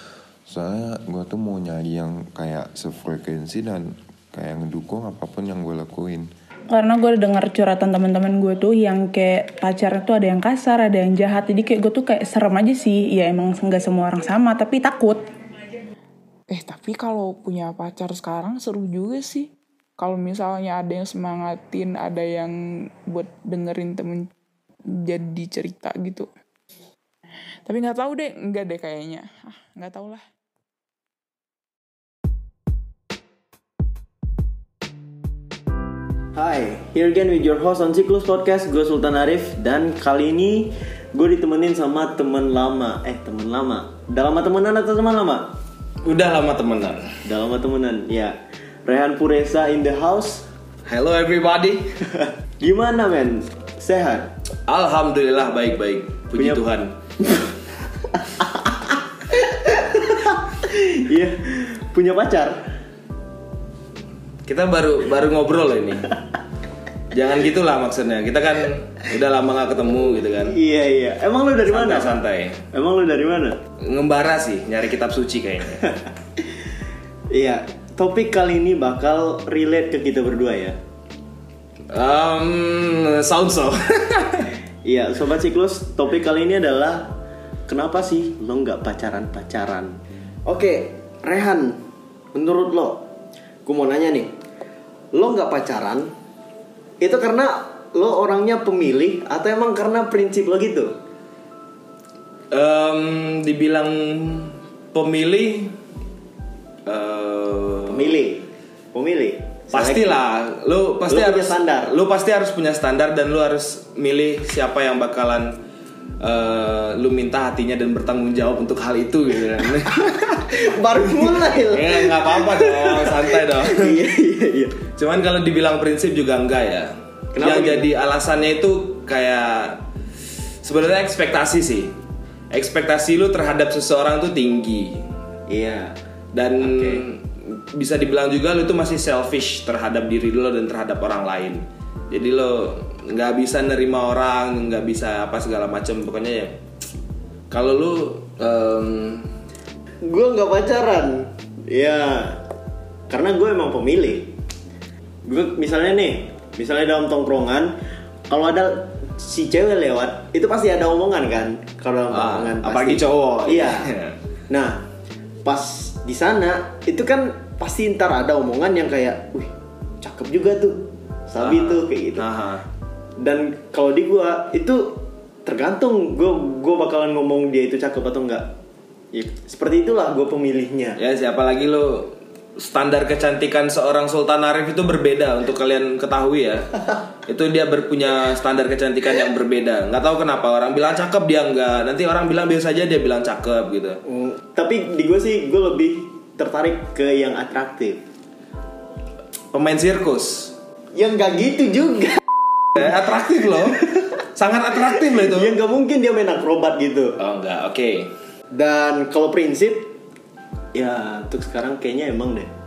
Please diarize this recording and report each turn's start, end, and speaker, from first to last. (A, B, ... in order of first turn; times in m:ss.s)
0:00.5-0:06.3 A
0:06.7-0:15.3 B
0:16.5-0:24.3 C
0:24.9-0:26.3 C
0:27.7-0:30.2 C
0:36.4-0:45.6 D
0:46.0-0:47.1 E
0:47.2-0:50.5 D
0:50.9-0:52.0 E
0:52.6-0:54.3 D
0:54.7-0:57.0 E
0:59.3-1:02.6 D
1:04.5-1:06.1 E
1:07.1-1:10.6 E
1:10.5-1:12.1 D
1:11.7-1:12.6 E
1:12.7-1:13.6 D
1:13.8-1:15.9 E
1:17.3-1:20.8 D
1:21.9-1:24.5 E
1:24.8-1:27.2 D
1:27.7-1:31.8 D
1:32.3-1:33.0 D
1:33.6-1:34.3 D
1:35.1-1:36.1 D
1:37.0-1:40.9 D
1:42.5-1:45.7 E
1:46.9-1:48.2 E
1:47.9-1:50.2 D
1:49.7-1:55.6 E
1:51.1-1:51.9 D
1:56.2-2:00.6 E
1:59.9-2:04.8 D
2:01.2-2:04.0 E
2:05.0-2:09.8 E
2:07.3-2:07.8 D
2:10.6-2:11.9 E
2:12.5-2:15.0 E
2:15.5-2:16.0 D
2:16.3-2:26.6 E
2:16.6-2:17.0 D
2:27.5-2:29.3 E
2:30.0-2:32.4 D
2:33.1-2:34.3 D
2:35.2-2:37.8 D
2:38.3-2:43.9 D
2:42.1-2:44.2 E
2:44.5-2:44.9 D
2:45.4-2:52.2 D
2:51.4-2:52.6 E
2:53.2-2:58.5 D
2:59.1-3:01.0 D
3:01.0-3:06.7 E
3:07.3-3:14.0 E
3:14.1-3:18.0 D
3:19.5-3:20.6 E
3:21.0-3:23.0 D
3:22.8-3:25.5 E
3:25.0-3:27.2 D
3:27.2-3:28.1 E
3:28.5-3:29.9 D
3:30.7-3:32.5 D